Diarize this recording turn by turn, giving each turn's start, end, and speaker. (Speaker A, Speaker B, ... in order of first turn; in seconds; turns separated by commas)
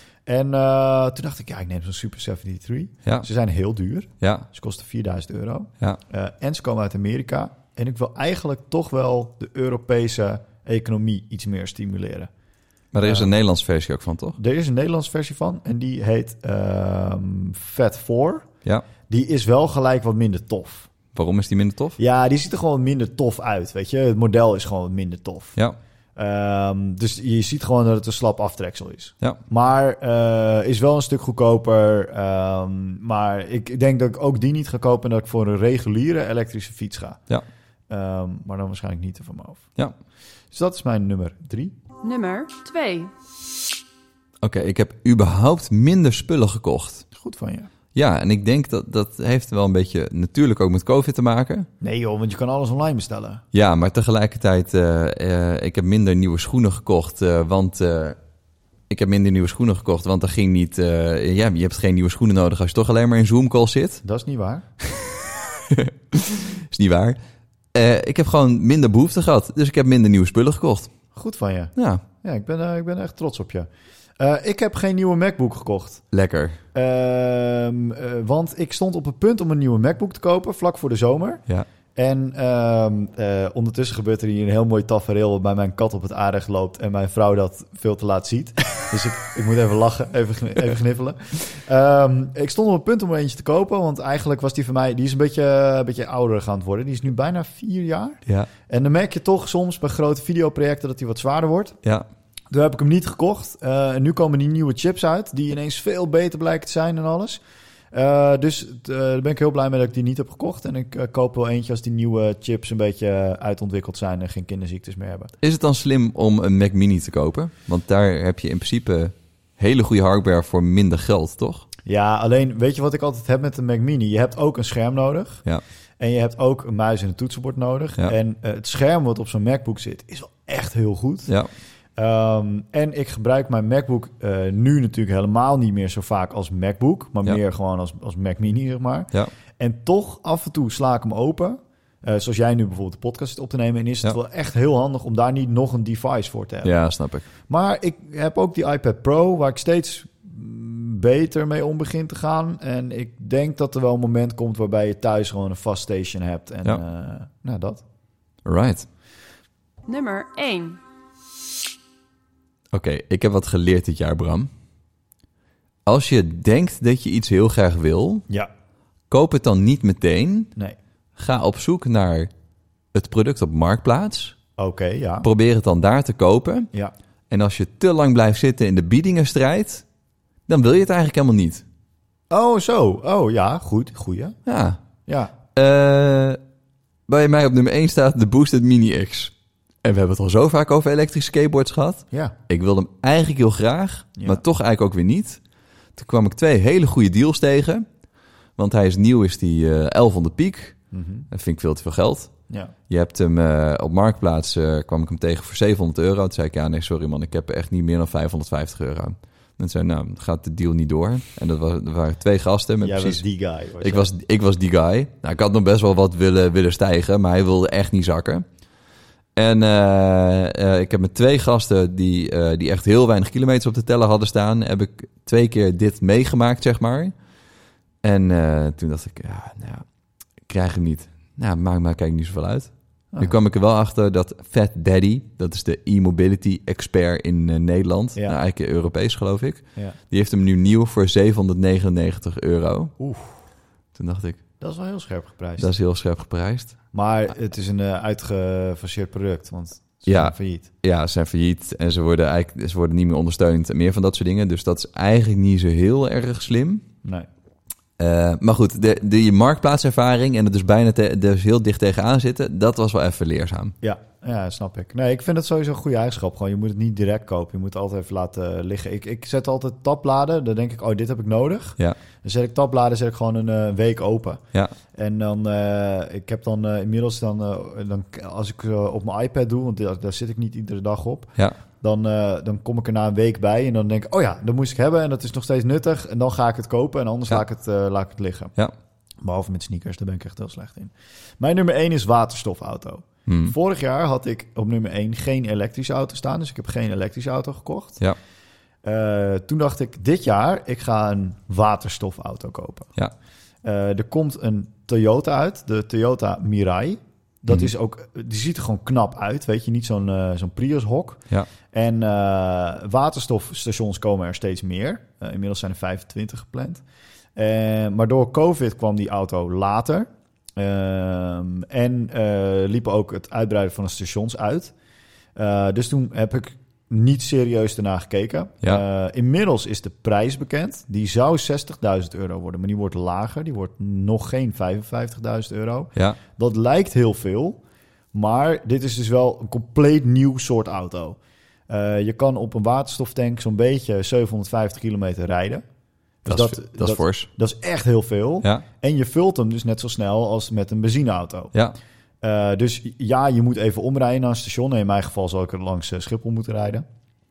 Speaker A: 0.3-12.3, Speaker B: 4.2-4.5, Speaker B: 12.9-14.4, Speaker A: 13.0-13.3, Speaker A: 14.4-18.5, Speaker A: 19.1-20.9, Speaker B: 21.1-22.0, Speaker A: 22.0-25.6, Speaker A: 26.2-37.2, Speaker A: 37.9-39.7, Speaker A: 40.5-41.7, Speaker C: 42.0-43.1, Speaker B: 44.4-47.0, Speaker A: 47.1-47.7, Speaker B: 48.0-51.7, Speaker A: 51.8-53.4, Speaker B: 53.5-58.2, Speaker B: 58.9-64.0, Speaker A: 64.0-64.7, Speaker B: 64.8-67.2, Speaker B: 67.7-70.9, Speaker A: 71.1-73.7, Speaker B: 71.8-72.0, Speaker A: 74.2-76.0, Speaker B: 76.1-76.6, Speaker A: 76.7-81.4, Speaker A: 82.0-101.8, Speaker A: 102.5-115.3, Speaker B: 115.4-121.7, Speaker A: 121.8-125.5, Speaker A: 126.0-131.4, Speaker A: 132.0-146.8, Speaker B: 146.6-147.3, Speaker A: 147.3-157.8, Speaker B: 158.4-158.9, Speaker C: 159.9-160.8, Speaker B: 162.7-164.5, Speaker B: 165.9-168.2, Speaker B: 169.1-170.5, Speaker B: 171.2-172.3, Speaker B: 172.9-174.4, Speaker A: 174.6-175.3, Speaker B: 175.2-176.7, Speaker B: 177.3-179.9, Speaker B: 180.5-181.6, Speaker A: 182.3-184.4, Speaker B: 184.5-184.8, Speaker A: 185.1-185.3, Speaker B: 185.6-186.4, Speaker B: 187.1-189.3, Speaker B: 189.8-195.4, Speaker A: 194.2-194.4, Speaker B: 195.9-197.8, Speaker B: 198.6-200.8, Speaker A: 200.9-201.3, Speaker B: 201.3-213.2, Speaker A: 212.8-214.1, Speaker B: 213.8-218.4, Speaker B: 219.4-227.2, Speaker B: 228.0-229.9, Speaker B: 230.4-242.9, Speaker A: 233.1-233.4, Speaker A: 243.0-243.4, Speaker B: 243.9-244.4, Speaker A: 244.6-245.7, Speaker B: 245.6-246.8, Speaker A: 246.9-250.7, Speaker B: 250.1-256.8, Speaker B: 258.0-263.7, Speaker A: 263.8-288.6, Speaker A: 289.2-298.1, Speaker B: 293.3-293.6, Speaker A: 298.8-303.0, Speaker A: 303.6-316.8, Speaker A: 317.4-324.7, Speaker A: 325.4-337.6, Speaker A: 338.1-341.2, Speaker A: 341.7-345.6, Speaker A: 346.2-351.6, Speaker B: 346.3-347.3, Speaker A: 352.2-356.8